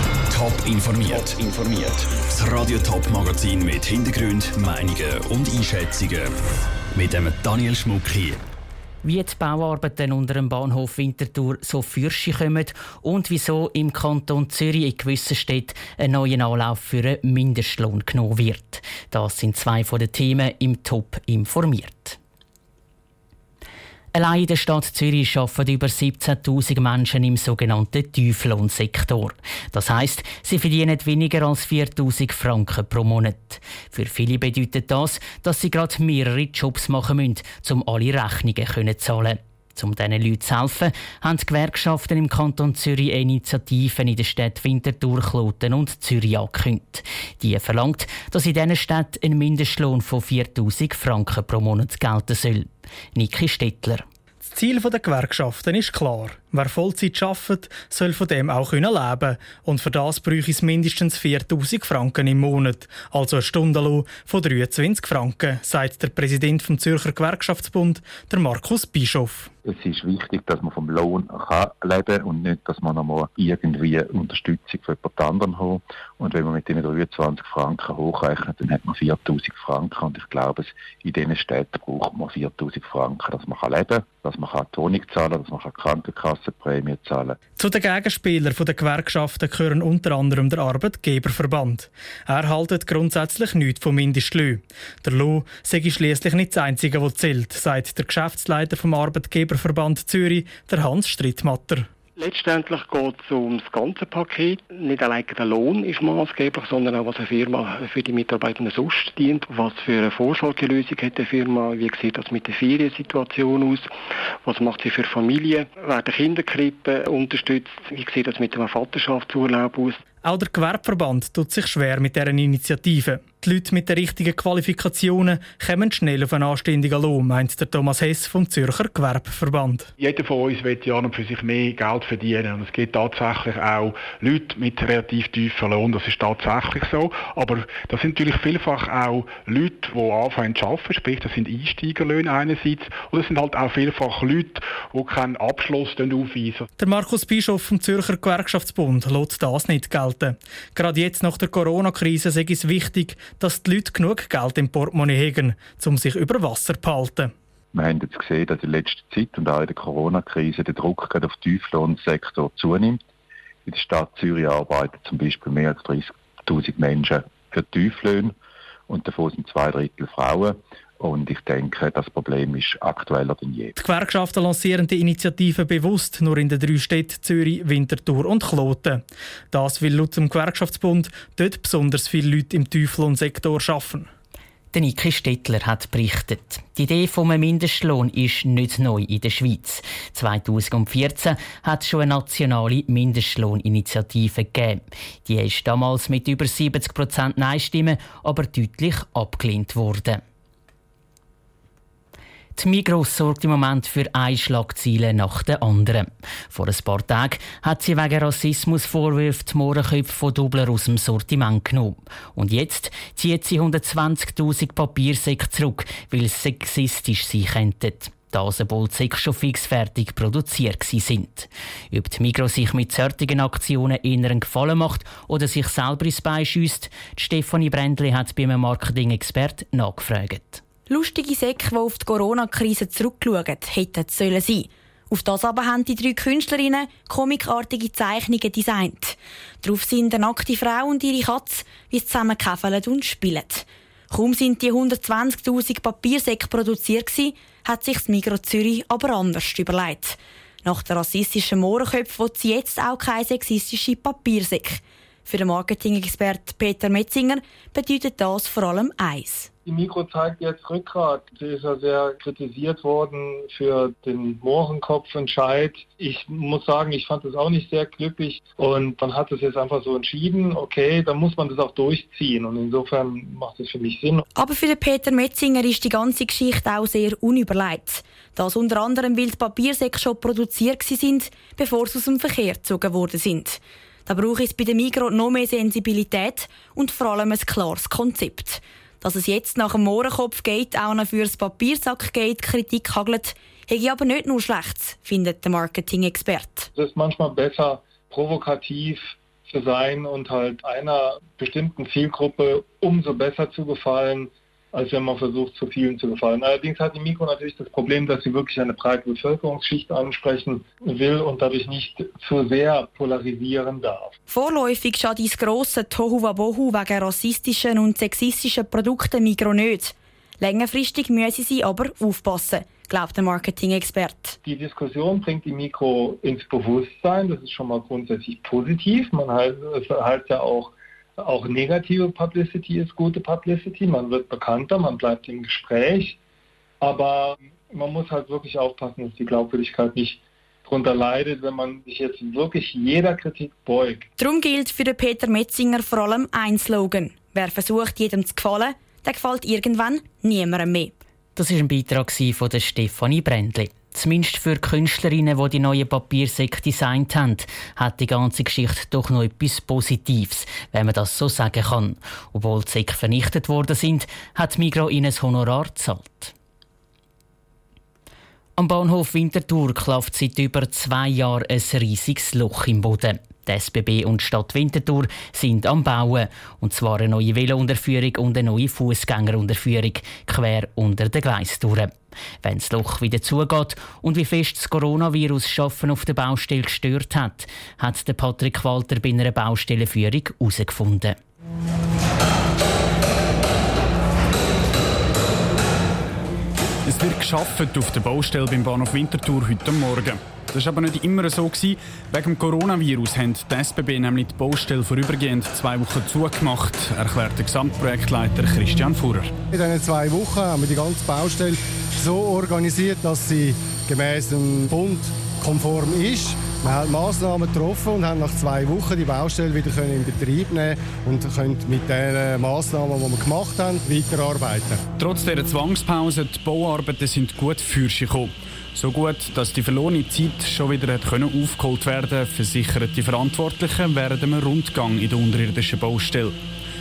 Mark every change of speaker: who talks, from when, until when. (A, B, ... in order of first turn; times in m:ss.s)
0:00.3-0:06.3 A
0:06.9-0:08.4 A
0:09.0-0:22.2 B
0:24.1-0:54.0 B
0:54.4-1:09.5 C
1:09.6-1:27.4 D
1:27.6-1:41.9 C
1:42.2-2:00.0 E
2:00.2-2:09.9 C
2:10.0-2:26.7 F
2:26.8-2:37.3 C
2:37.7-2:43.0 D
2:43.6-2:48.3 D
2:48.9-2:53.7 D
2:53.8-3:04.1 C
3:04.7-3:20.2 B
3:22.5-3:50.6 B
3:50.9-4:19.5 G
4:19.6-4:34.2 H
4:34.3-4:56.7 G
4:56.8-5:14.1 H
5:14.3-5:24.4 G
5:24.4-5:36.2 H
5:36.8-5:44.1 H
5:44.2-5:50.9 G
5:51.3-6:06.3 B
6:08.6-6:21.9 B
6:22.4-6:31.2 B
6:36.8-6:49.3 I
6:49.5-7:04.8 J
7:05.0-7:16.4 I